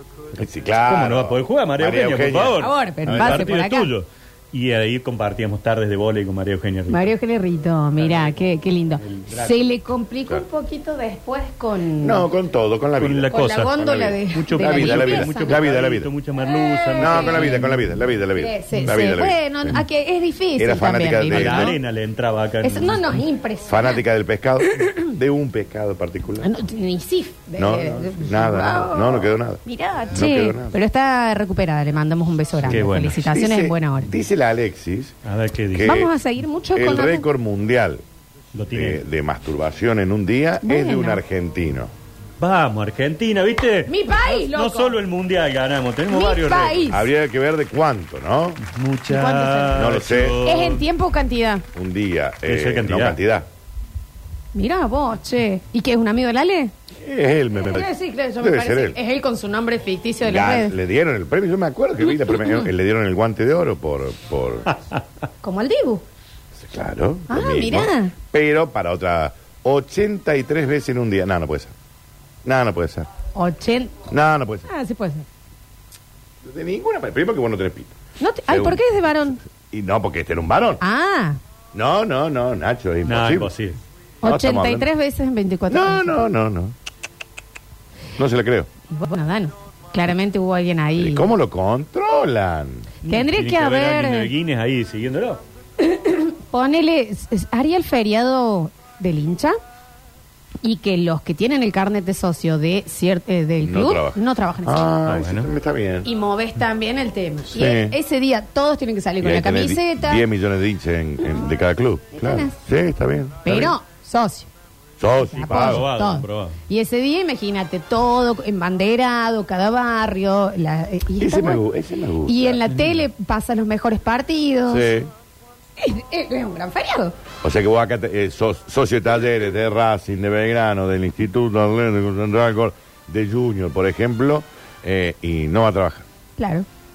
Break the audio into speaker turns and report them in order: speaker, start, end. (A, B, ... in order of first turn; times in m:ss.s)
0:00.3-0:03.5 A
0:00.9-0:07.1 B
0:02.6-0:03.9 C
0:06.9-0:12.3 C
0:08.0-0:08.4 B
0:09.0-0:09.7 B
0:12.0-0:16.1 A
0:13.0-0:17.9 B
0:13.3-0:15.7 C
0:16.4-0:17.7 C
0:17.0-0:19.8 A
0:18.3-0:21.8 C
0:20.6-0:21.7 A
0:21.3-0:23.2 B
0:22.6-0:24.0 C
0:23.6-0:26.5 A
0:24.7-0:25.1 C
0:26.4-0:34.1 C
0:27.6-0:30.8 A
0:32.6-0:33.2 B
0:33.2-0:35.2 A
0:35.2-0:36.0 B
0:35.7-0:36.1 A
0:35.8-0:37.2 C
0:36.7-0:38.0 A
0:38.5-0:39.0 B
0:38.7-0:41.9 A
0:40.6-0:41.2 C
0:42.4-0:47.0 B
0:43.9-0:45.0 C
0:46.1-0:47.1 C
0:46.9-0:48.6 A
0:48.6-0:50.8 B
0:49.1-0:51.6 C
0:49.7-0:50.4 A
0:51.7-0:53.5 A
0:52.4-0:53.2 B
0:54.5-0:56.7 C
0:57.0-0:59.0 A
0:57.6-1:00.7 C
1:00.2-1:04.7 A
1:02.2-1:02.7 C
1:04.7-1:05.0 B
1:05.4-1:06.0 C
1:06.5-1:11.7 A
1:07.3-1:08.1 C
1:12.4-1:13.1 A
1:13.4-1:13.9 C
1:14.1-1:14.6 A
1:14.6-1:15.2 C
1:16.4-1:17.9 A
1:18.2-1:19.4 C
1:18.5-1:18.9 A
1:19.4-1:20.8 A
1:20.8-1:21.4 C
1:21.7-1:23.5 A
1:23.0-1:23.8 B
1:24.2-1:26.2 C
1:24.2-1:24.9 A
1:25.7-1:26.7 A
1:28.2-1:28.7 A
1:28.9-1:31.3 C
1:31.0-1:32.9 A
1:33.0-1:34.3 C
1:33.0-1:35.4 B
1:35.8-1:39.6 C
1:40.6-1:44.9 C
1:43.6-1:46.1 A
1:45.0-1:45.5 B
1:46.0-1:50.2 C
1:47.5-1:48.0 A
1:49.2-1:53.7 A
1:52.1-1:52.6 C
1:53.4-1:54.5 C
1:55.0-1:55.8 A
1:55.3-1:56.6 B
1:55.3-2:01.6 C
2:01.2-2:02.6 A
2:02.2-2:04.9 C
2:04.7-2:05.1 A
2:05.8-2:07.2 C
2:07.4-2:16.0 A
2:16.4-2:16.6 C